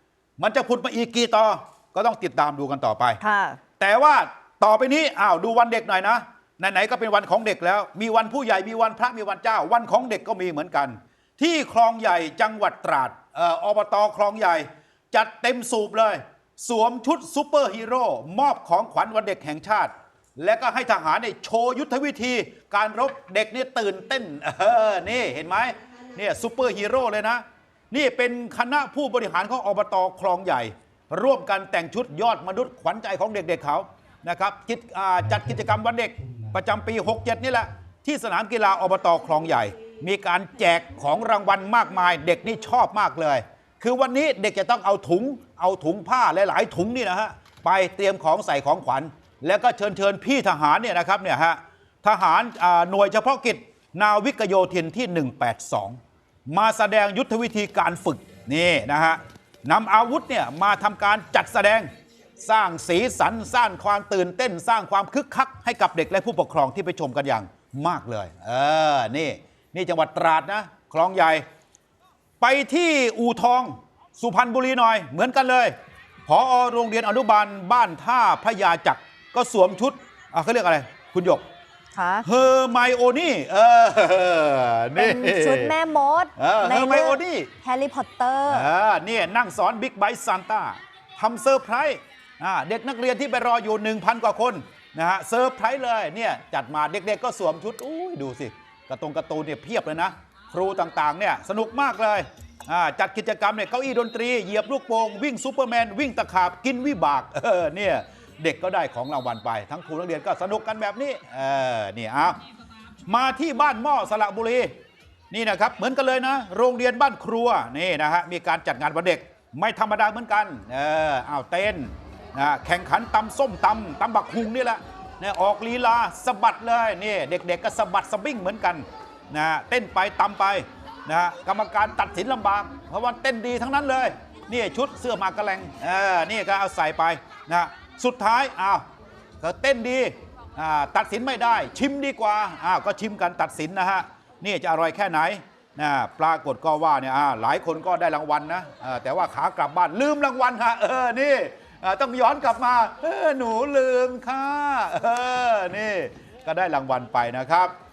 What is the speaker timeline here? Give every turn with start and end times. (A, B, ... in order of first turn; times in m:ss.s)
0:00.4-0:03.2 A
0:03.2-0:03.6 B
0:03.8-1:11.4 A
1:12.4-1:15.7 A
1:16.3-1:21.4 A
1:21.9-1:22.3 B
1:22.2-1:25.7 A
1:24.9-1:28.7 B
1:26.4-1:27.5 A
1:28.5-1:52.4 A
1:53.0-1:54.7 A
1:55.3-2:18.8 A
2:19.4-2:37.7 A